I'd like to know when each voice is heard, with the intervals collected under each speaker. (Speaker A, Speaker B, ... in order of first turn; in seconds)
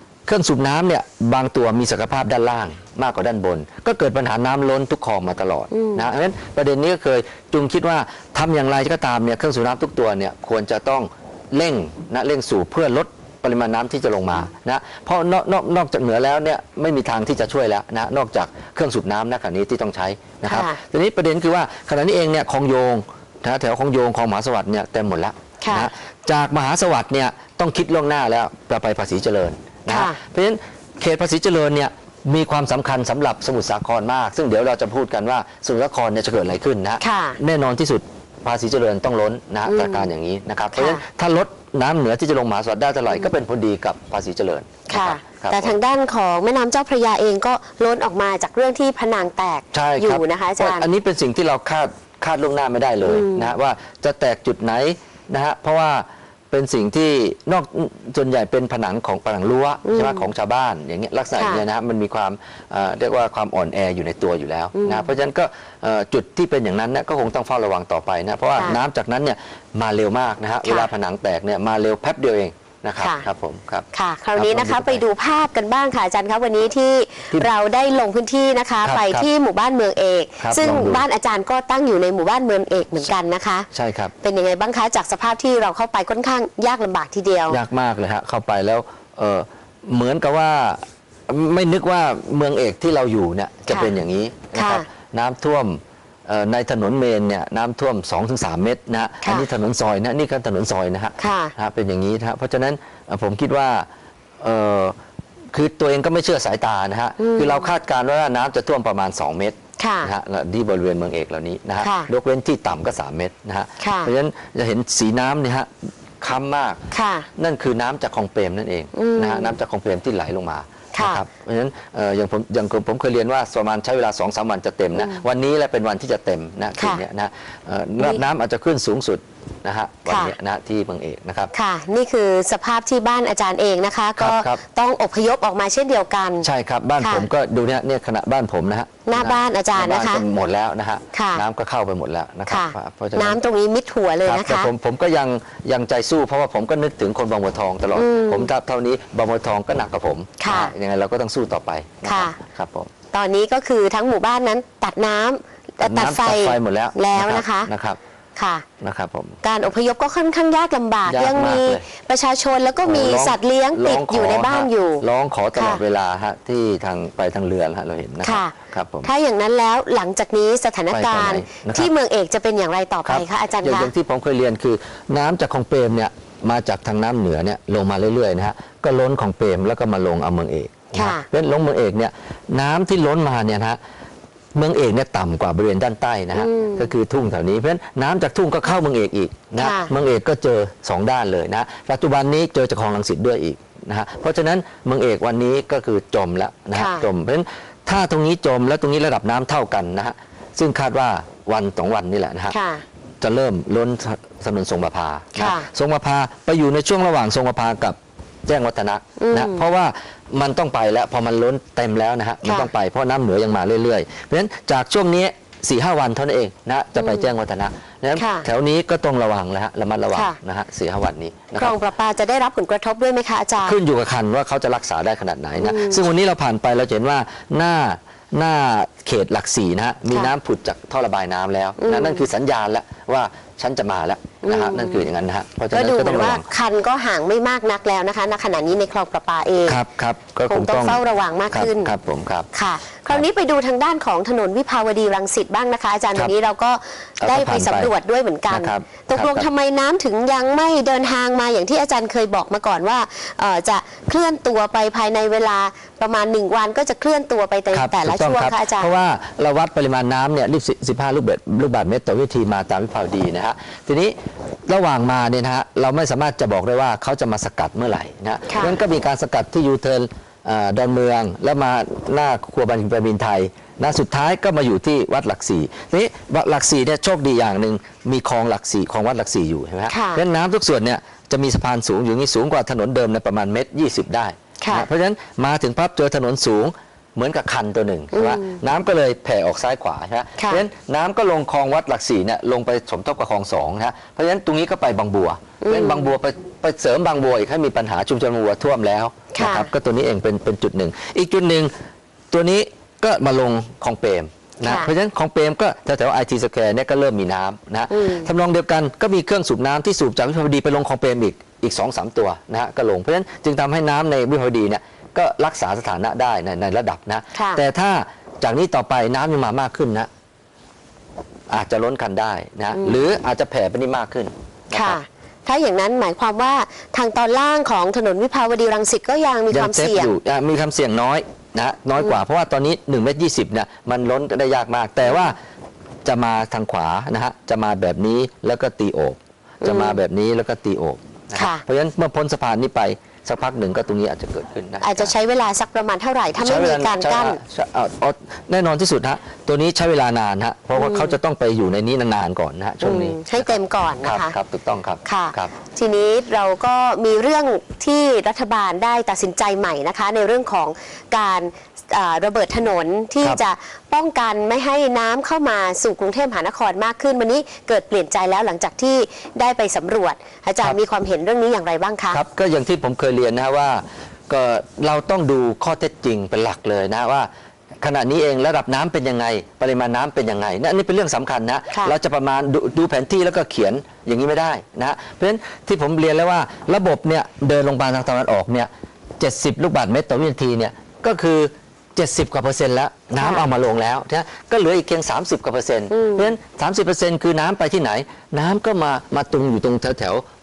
Speaker A: 0.3-45.8, 49.7-75.0, 78.8-79.3, 80.4-81.0, 83.7-84.1, 87.5-103.9, 104.4-104.9, 105.5-116.8, 117.4-131.5, 134.2-134.6, 136.4-143.4, 144.2-152.9, 155.8-158.0, 158.8-159.4, 161.1-161.8, 162.8-169.1, 170.9-171.9, 173.0-183.8, 184.5-202.5, 203.2-221.8, 223.6-236.4, 239.7-242.5, 247.2-247.9, 248.5-249.5, 257.7-264.1, 264.7-301.7, 302.3-320.1, 321.5-325.0, 329.5-335.4, 336.0-345.1, 346.4-355.5, 372.1-377.3, 377.8-400.2
Speaker B: 5.7-6.1, 20.4-20.8, 25.6-25.9, 29.9-30.2, 37.0-37.4, 39.7-40.1, 40.8-41.0, 44.9-50.9, 53.0-53.5, 59.8-60.3, 61.4-61.6, 64.8-65.1, 70.7-70.9, 73.0-73.2, 73.9-83.7, 84.2-87.6, 94.5-94.9, 99.2-99.5, 101.2-101.5, 107.2-107.7, 109.8-110.1, 111.8-112.1, 113.8-114.1, 116.9-117.3, 118.9-119.6, 120.9-121.2, 125.0-125.2, 126.8-127.0, 130.1-130.3, 131.5-136.5, 137.0-137.3, 139.0-140.2, 141.1-141.4, 142.5-144.7, 148.0-148.5, 150.4-150.7, 152.0-152.4, 153.1-157.7, 158.4-158.7, 159.4-165.0, 165.6-165.8, 168.2-173.9, 180.9-181.3, 186.3-186.9, 189.6-189.9, 196.7-197.0, 202.5-202.8, 205.3-205.7, 209.2-209.7, 212.4-212.7, 217.0-217.3, 218.2-218.5, 220.1-220.4, 221.6-223.8, 225.6-226.1, 231.8-232.3, 234.4-235.1, 235.7-239.8, 240.5-241.9, 242.5-258.9, 268.5-268.8, 279.9-280.2, 284.6-284.9, 288.1-288.6, 290.4-290.6, 295.6-296.1, 299.3-299.7, 304.6-304.9, 307.9-308.3, 317.3-317.6, 322.8-323.0, 324.7-330.1, 335.1-335.4, 339.6-340.0, 341.4-341.6, 344.8-347.4, 350.8-351.2, 352.8-354.4, 355.0-372.2, 393.2-393.4, 395.9-396.3